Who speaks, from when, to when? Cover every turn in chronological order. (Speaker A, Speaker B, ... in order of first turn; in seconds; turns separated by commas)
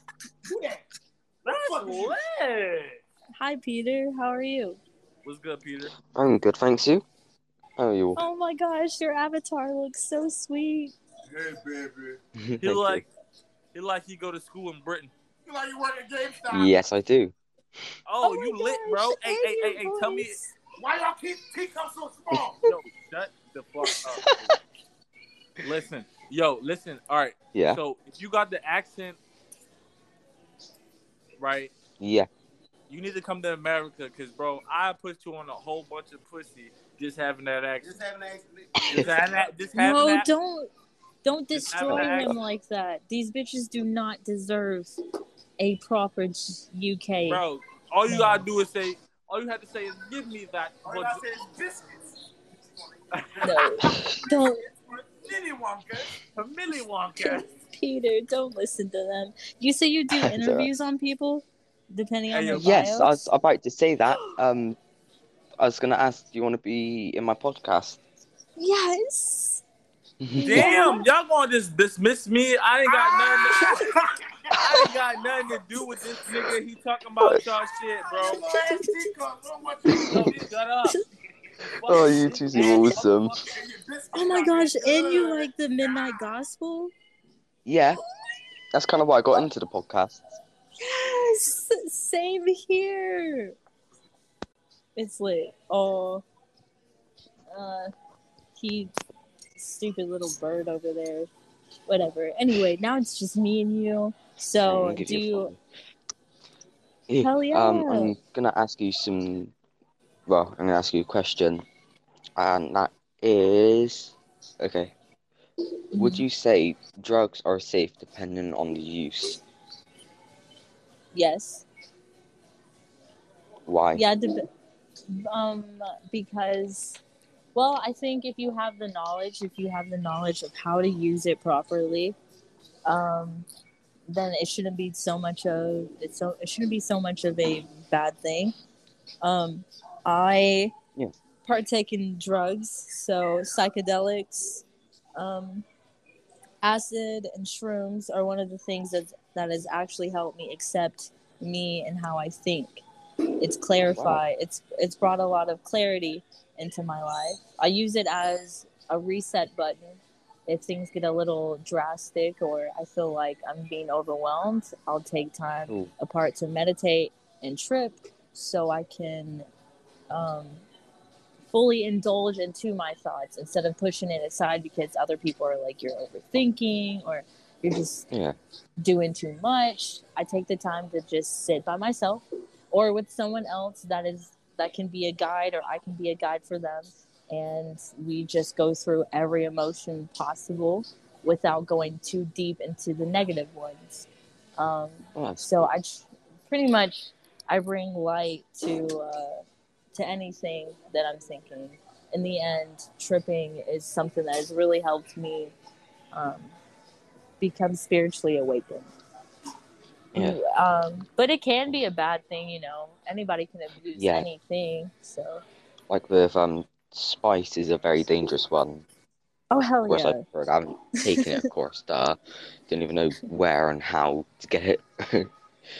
Speaker A: 0.5-0.8, Speaker B: 1.4-3.0, Speaker C: 1.5-2.1, Speaker A: 1.6-2.0, Speaker C: 3.4-4.8, Speaker B: 5.2-5.9, Speaker D: 6.1-7.0, Speaker D: 7.8-8.2, Speaker C: 8.2-10.9, Speaker A: 11.3-12.2, Speaker D: 12.4-13.0, Speaker B: 12.6-13.1, Speaker B: 13.7-15.1, Speaker A: 15.4-16.7, Speaker D: 16.5-17.3, Speaker B: 18.1-20.4, Speaker C: 18.2-20.5, Speaker A: 20.8-22.6, Speaker B: 22.6-24.6, Speaker D: 24.2-24.5, Speaker B: 25.6-29.2, Speaker D: 27.5-27.8, Speaker B: 31.4-31.7, Speaker D: 32.0-32.3, Speaker B: 32.9-38.0, Speaker A: 37.8-39.1, Speaker B: 38.8-40.3, Speaker C: 39.7-40.7, Speaker C: 41.2-44.9, Speaker B: 41.5-42.4, Speaker D: 41.8-42.4, Speaker C: 45.6-47.4, Speaker B: 47.3-51.2, Speaker C: 48.1-48.5, Speaker A: 50.8-52.0, Speaker B: 53.2-53.5, Speaker C: 53.4-54.6, Speaker D: 53.8-54.1, Speaker A: 54.7-56.1, Speaker B: 56.4-57.4, Speaker C: 57.2-63.2, Speaker D: 60.1-60.7, Speaker B: 62.3-62.8, Speaker D: 62.6-64.8, Speaker D: 65.6-68.0, Speaker C: 68.6-69.6, Speaker D: 70.2-70.8, Speaker C: 70.4-71.0, Speaker B: 70.4-73.8, Speaker C: 73.4-73.9, Speaker B: 74.5-78.4, Speaker C: 78.0-79.1, Speaker A: 78.2-80.3, Speaker B: 80.1-81.0, Speaker B: 81.6-83.5, Speaker D: 81.8-83.4, Speaker A: 82.5-83.0, Speaker A: 83.5-85.5, Speaker C: 84.1-86.9, Speaker D: 87.7-88.0, Speaker D: 88.7-90.3, Speaker C: 90.8-93.5, Speaker C: 94.9-96.2, Speaker C: 97.5-97.9, Speaker C: 98.5-98.9, Speaker C: 99.6-101.3, Speaker C: 101.9-105.5, Speaker D: 104.6-105.6, Speaker D: 107.1-109.5, Speaker C: 107.2-108.1, Speaker D: 110.3-111.6, Speaker D: 112.4-114.9, Speaker C: 115.9-116.2, Speaker D: 116.0-119.4, Speaker C: 121.1-121.7, Speaker D: 123.7-124.0, Speaker C: 123.9-124.4, Speaker C: 125.1-127.0, Speaker C: 127.5-132.2, Speaker C: 132.9-133.5, Speaker C: 134.1-138.5, Speaker C: 139.2-140.7, Speaker C: 141.4-144.6, Speaker C: 145.2-145.7, Speaker C: 146.6-152.8, Speaker C: 153.4-169.5, Speaker D: 153.8-154.2, Speaker C: 170.1-170.6, Speaker C: 171.5-178.1, Speaker D: 178.1-178.3, Speaker C: 178.8-194.1, Speaker C: 194.6-199.4, Speaker D: 195.2-195.7, Speaker C: 199.9-205.5, Speaker C: 206.1-206.5, Speaker C: 207.4-208.9, Speaker C: 210.2-215.4, Speaker D: 213.9-214.3, Speaker D: 215.9-218.8, Speaker C: 219.5-220.2, Speaker D: 219.8-225.3